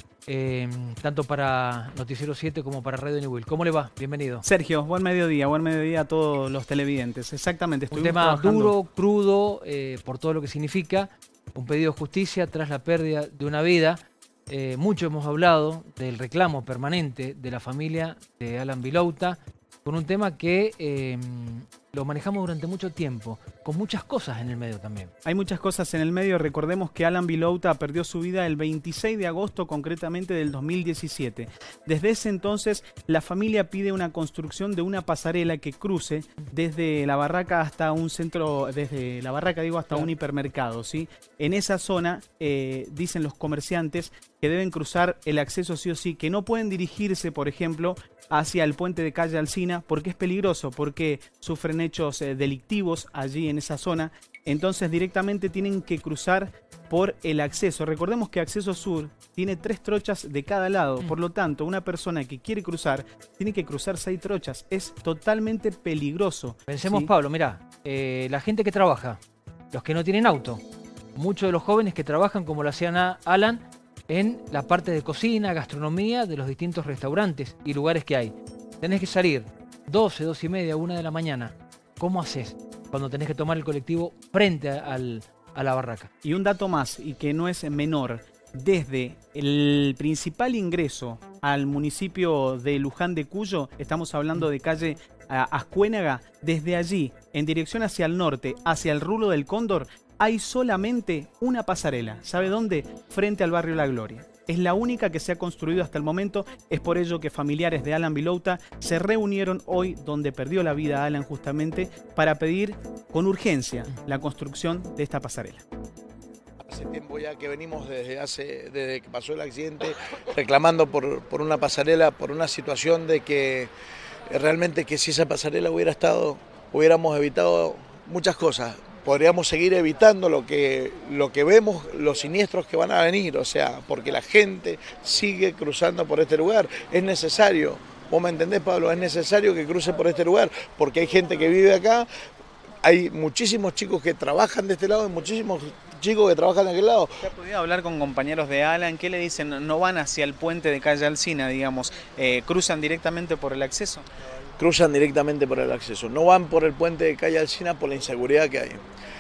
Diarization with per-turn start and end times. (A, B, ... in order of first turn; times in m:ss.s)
0:00.3-0:04.4 A
0:04.4-0:08.8 B
0:07.9-0:25.1 A
0:25.3-1:07.1 B
1:06.7-1:09.2 A
1:09.7-1:10.6 A
1:11.2-1:26.1 A
1:26.2-1:55.6 B
1:56.7-2:03.7 C
2:04.3-2:22.1 C
2:22.8-2:27.1 C
2:27.3-2:34.0 B
2:34.6-2:38.8 C